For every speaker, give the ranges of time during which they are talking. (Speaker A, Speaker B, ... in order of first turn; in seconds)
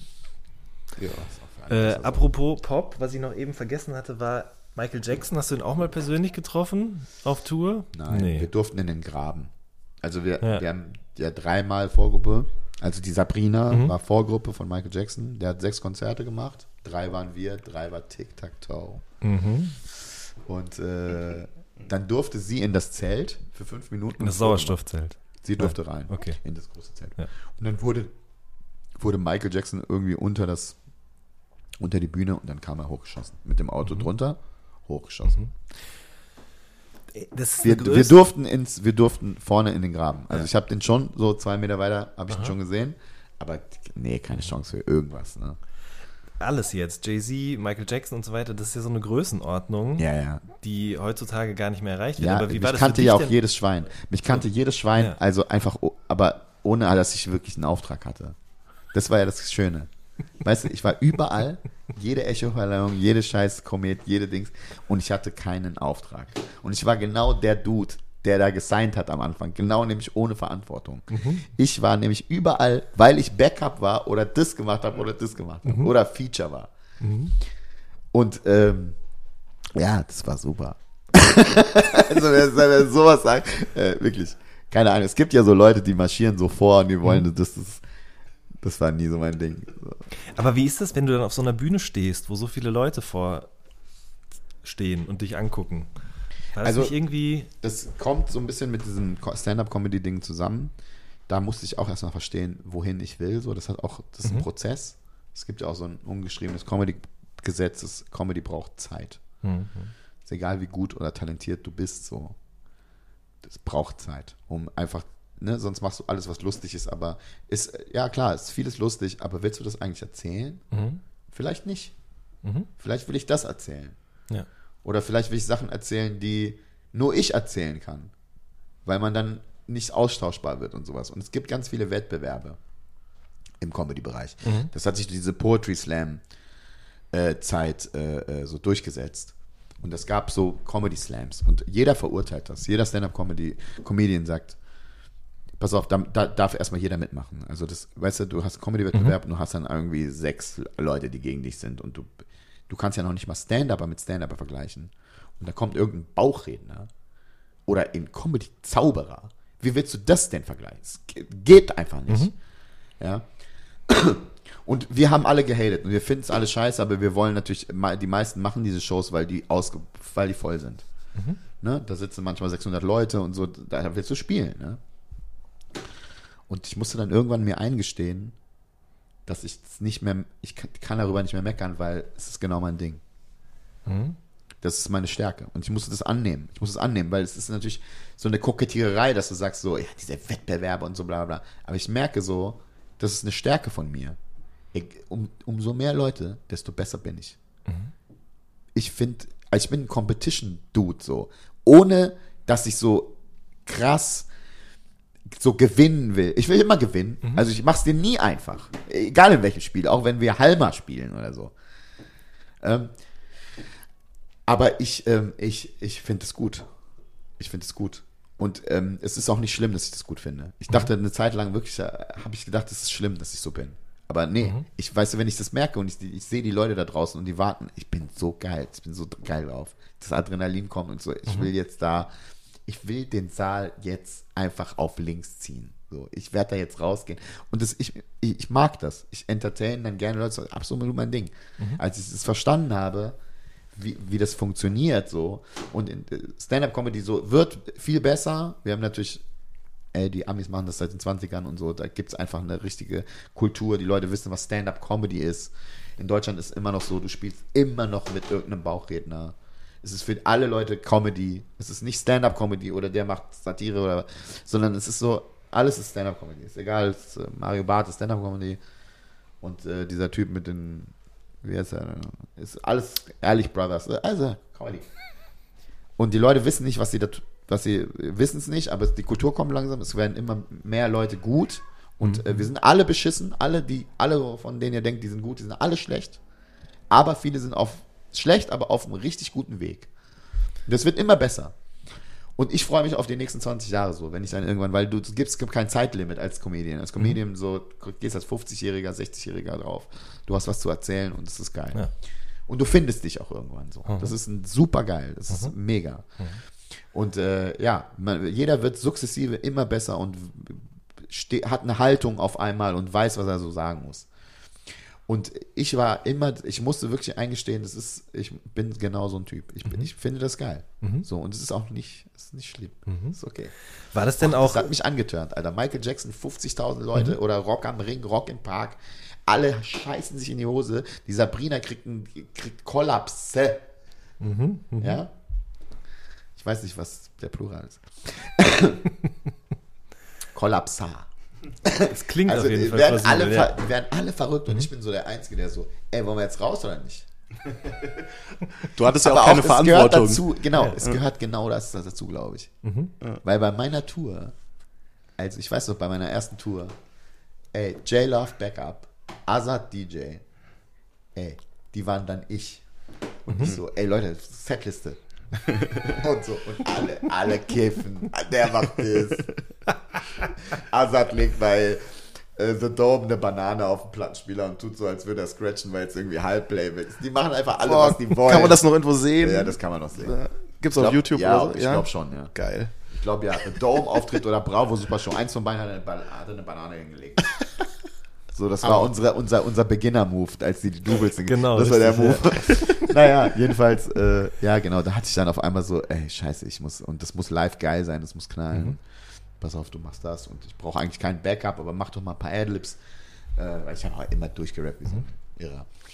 Speaker A: 1.0-1.3, 348.6-351.0, 365.5-365.8, 377.6-382.7, 388.6-388.9
Speaker B: 1.2-2.3, 7.9-19.0, 19.9-28.1, 29.0-30.8, 31.8-35.5, 37.6-45.6, 50.0-50.4, 52.2-58.4, 58.9-59.9, 60.4-76.7, 78.1-79.0, 79.7-87.8, 88.6-90.0, 96.6-97.0, 97.5-100.7, 101.3-109.2, 110.2-112.4, 113.4-120.6, 121.3-121.9, 122.8-123.9, 124.8-128.1, 128.8-132.6, 133.6-136.2, 137.1-144.6, 145.6-156.9, 157.7-162.3, 163.0-163.2, 163.9-170.8, 171.6-174.8, 176.5-178.3, 179.2-183.0, 184.6-194.2, 194.7-197.4, 198.7-203.1, 203.7-204.3, 205.3-211.5, 212.6-212.9, 214.5-216.7, 217.4-232.1, 232.7-243.2, 243.7-249.2, 249.9-268.6, 269.4-274.9, 276.0-286.2, 286.9-289.9, 290.7-291.5, 292.4-301.9, 302.5-306.1, 306.9-314.1, 315.1-323.5, 324.2-333.6, 334.8-335.1, 336.4-338.8, 340.3-341.1, 341.6-347.1, 348.8-352.5, 353.2-354.3, 355.2-356.8, 357.5-360.2, 361.1-362.6, 363.2-365.0, 365.8-369.3, 370.5-378.6, 379.2-380.2, 380.7-387.4, 388.3-398.8, 399.4-402.8, 403.3-405.7
Speaker C: 1.7-8.5, 13.7-13.9, 19.2-19.8, 24.2-26.4, 33.8-34.1, 37.1-38.2, 46.4-53.4, 71.1-71.4, 75.7-75.9, 77.0-77.3, 90.3-93.5, 94.6-95.9, 96.5-97.5, 109.4-109.9, 120.7-121.0, 122.4-122.7, 134.4-134.7, 162.1-162.3, 183.8-184.2, 197.7-197.9, 282.0-282.5, 303.9-304.1, 322.9-323.2, 323.7-324.7, 334.2-335.0, 341.8-343.5, 352.6-352.9, 363.3-363.6, 391.2-392.8